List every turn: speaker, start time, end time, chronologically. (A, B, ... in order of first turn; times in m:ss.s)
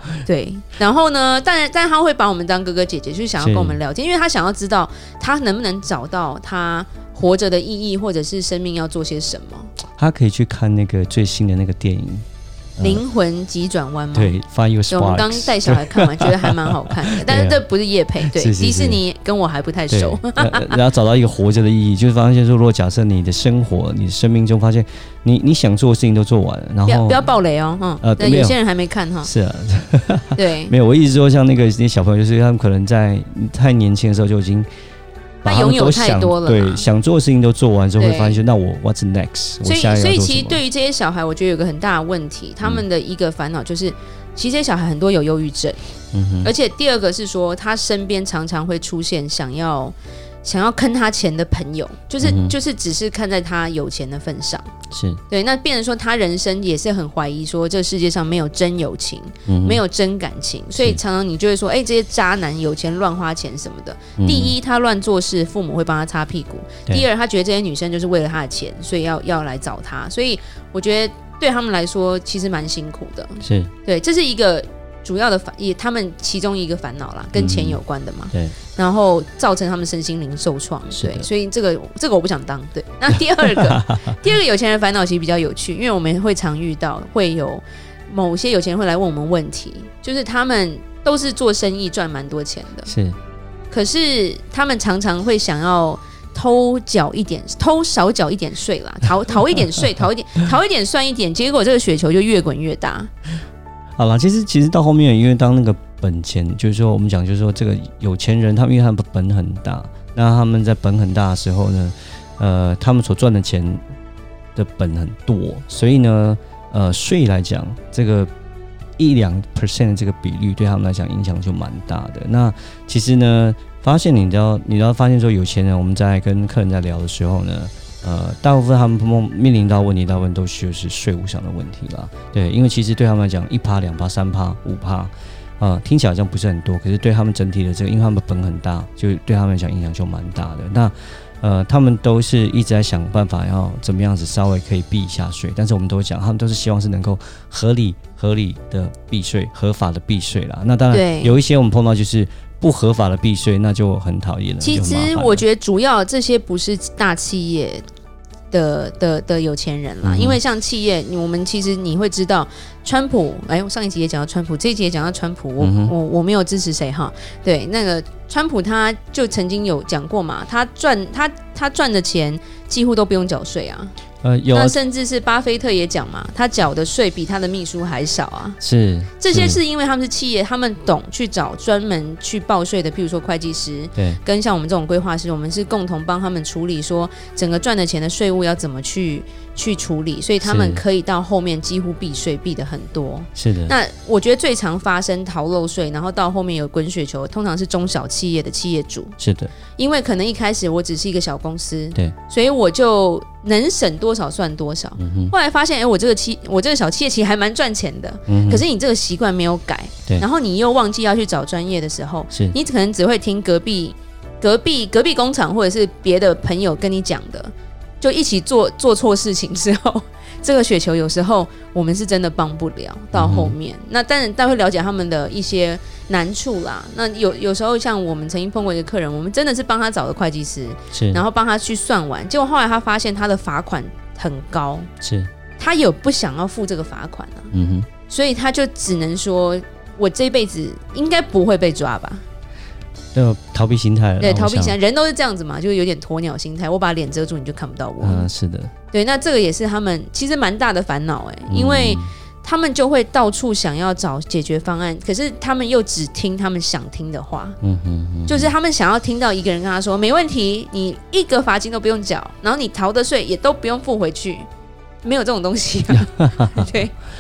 0:00.2-0:09.7 A
0:03.4-0:03.8 B
0:10.0-0:12.2 B
0:12.8-0:13.0 B
0:12.8-0:14.4 A
0:14.1-0:17.6 B
0:14.9-0:20.8 A
0:18.3-0:19.0 B
0:19.9-0:27.3 B
0:26.8-0:29.3 A
0:28.0-0:28.6 B
0:29.2-0:34.7 B
0:30.4-0:30.7 A
0:35.4-0:40.6 B
0:35.4-0:36.9 A
0:38.0-0:38.4 A
0:39.6-0:45.8 A
0:46.1-0:46.5 B
0:46.4-0:54.7 A
0:52.2-0:52.5 B
0:54.9-0:55.2 B
0:55.3-1:32.9 A
0:59.4-0:59.8 B
1:04.2-1:04.5 B
1:13.4-1:13.7 B
1:17.3-1:17.8 B
1:20.9-1:21.3 B
1:23.5-1:24.1 B
1:32.9-1:33.2 B
1:33.7-1:43.1 A
1:44.0-1:53.8 B
1:54.6-1:58.3 B
1:59.0-2:35.4 B
2:30.9-2:31.4 A
2:34.6-2:37.8 A
2:38.5-2:53.9 A
2:40.0-2:40.4 B
2:45.6-2:45.9 B
2:54.2-2:54.8 B
2:54.5-2:58.6 A
2:58.6-2:59.6 B
2:59.2-3:19.1 A
3:10.4-3:10.8 B
3:13.3-3:13.7 B
3:19.2-3:19.5 B
3:19.8-3:54.9 A
3:25.0-3:25.3 B
3:28.3-3:28.6 B
3:43.1-3:43.5 B
3:50.9-3:51.2 B
3:55.0-3:55.3 B
3:55.6-3:57.5 A
3:57.5-3:57.9 B
3:58.1-4:02.2 A
4:03.1-4:04.8 B
4:04.2-4:08.3 A
4:08.0-4:08.7 B
4:08.9-4:17.6 A
4:11.5-4:12.1 B
4:17.6-4:18.5 B
4:18.3-4:24.5 A
4:25.0-4:26.9 A
4:26.0-4:26.6 B